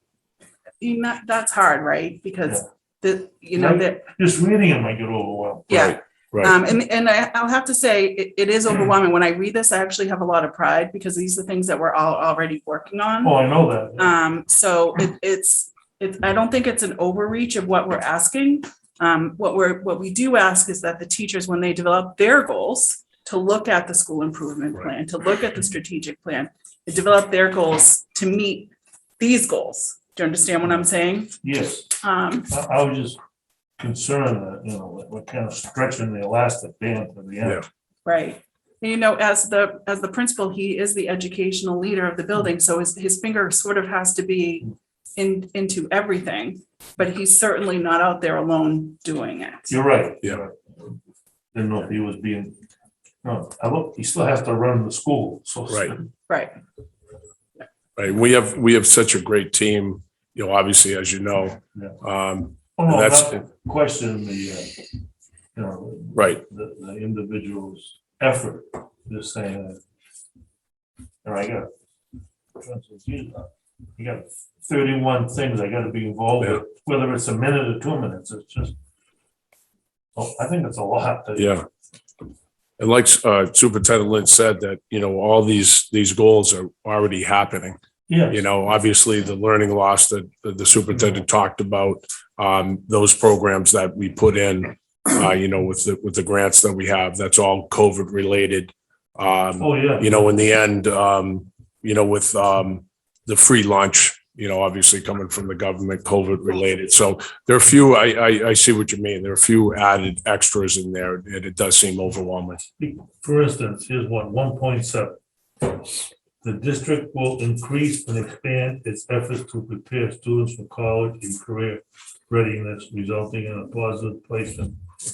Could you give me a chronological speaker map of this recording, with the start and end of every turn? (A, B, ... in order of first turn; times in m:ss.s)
0:00.8-0:04.0 A
0:03.6-0:05.7 B
0:05.7-0:06.6 C
0:05.7-0:31.4 A
0:13.2-0:14.2 B
0:31.4-0:32.0 B
0:32.0-0:32.5 A
0:32.5-0:33.2 B
0:33.8-0:37.7 B
0:38.1-0:49.8 A
0:49.7-0:51.0 B
0:51.5-0:52.6 B
0:53.2-0:56.1 B
0:56.3-0:56.6 A
0:58.0-1:03.5 C
1:02.8-1:04.8 B
1:05.6-1:09.8 B
1:06.1-1:06.4 C
1:11.2-1:11.7 B
1:12.6-1:18.8 B
1:20.2-1:21.5 B
1:21.4-1:21.7 C
1:22.8-1:27.8 C
1:28.1-1:28.4 B
1:28.3-1:52.6 C
1:39.6-1:40.2 B
1:52.8-1:55.8 B
1:56.4-2:04.8 B